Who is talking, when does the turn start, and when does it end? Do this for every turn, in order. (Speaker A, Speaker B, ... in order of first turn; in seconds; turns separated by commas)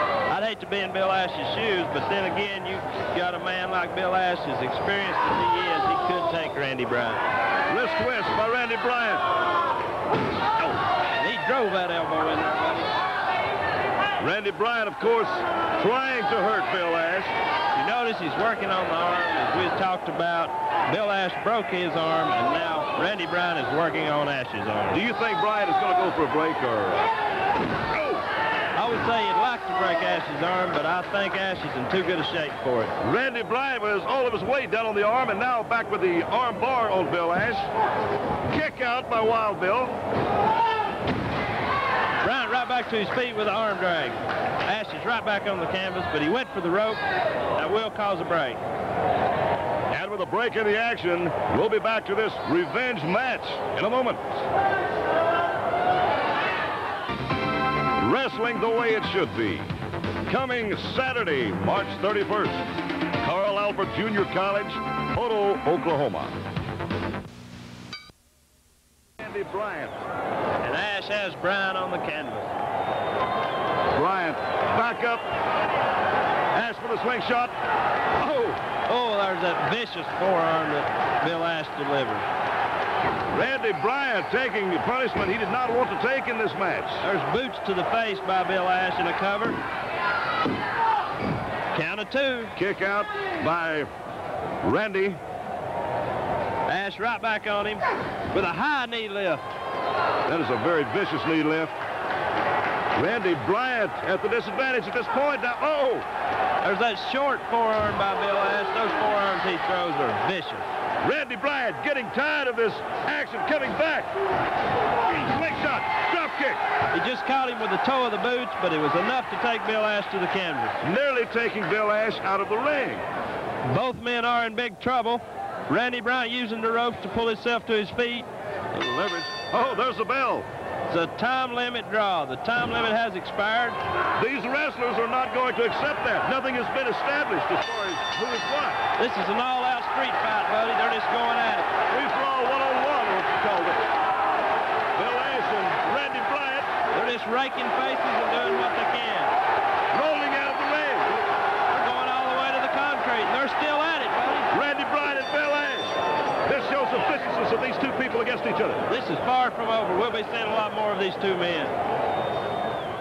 Speaker A: 0.3-7.2, Speaker B: 7.7-9.2, Speaker A: 11.0-12.9, Speaker B: 14.2-17.3, Speaker A: 17.7-25.0, Speaker B: 24.9-27.1, Speaker B: 27.9-28.2, Speaker A: 28.8-32.9, Speaker B: 33.0-37.7, Speaker B: 38.5-40.0, Speaker A: 42.2-47.0, Speaker A: 47.5-48.6, Speaker B: 49.9-54.4, Speaker B: 58.0-59.8, Speaker B: 60.3-62.6, Speaker B: 63.2-66.4, Speaker B: 69.2-70.0, Speaker A: 70.6-72.5, Speaker B: 73.9-75.3, Speaker B: 76.5-77.5, Speaker B: 78.2-78.6, Speaker A: 78.9-82.3, Speaker B: 83.3-87.0, Speaker A: 87.0-89.6, Speaker A: 91.7-92.5, Speaker B: 92.5-93.9, Speaker B: 94.6-95.2, Speaker A: 96.7-99.5, Speaker B: 100.3-101.8, Speaker B: 103.0-106.1, Speaker A: 106.6-110.7, Speaker B: 111.0-114.1, Speaker B: 115.1-116.6, Speaker A: 116.9-120.8, Speaker B: 120.8-123.1, Speaker A: 123.7-128.3, Speaker B: 128.7-130.5, Speaker A: 130.9-133.8, Speaker B: 134.2-138.8, Speaker A: 139.0-141.7, Speaker B: 141.9-143.8, Speaker B: 145.0-146.7, Speaker A: 146.9-149.3, Speaker B: 149.9-151.2, Speaker A: 151.7-154.5, Speaker B: 154.5-158.8, Speaker A: 158.9-161.8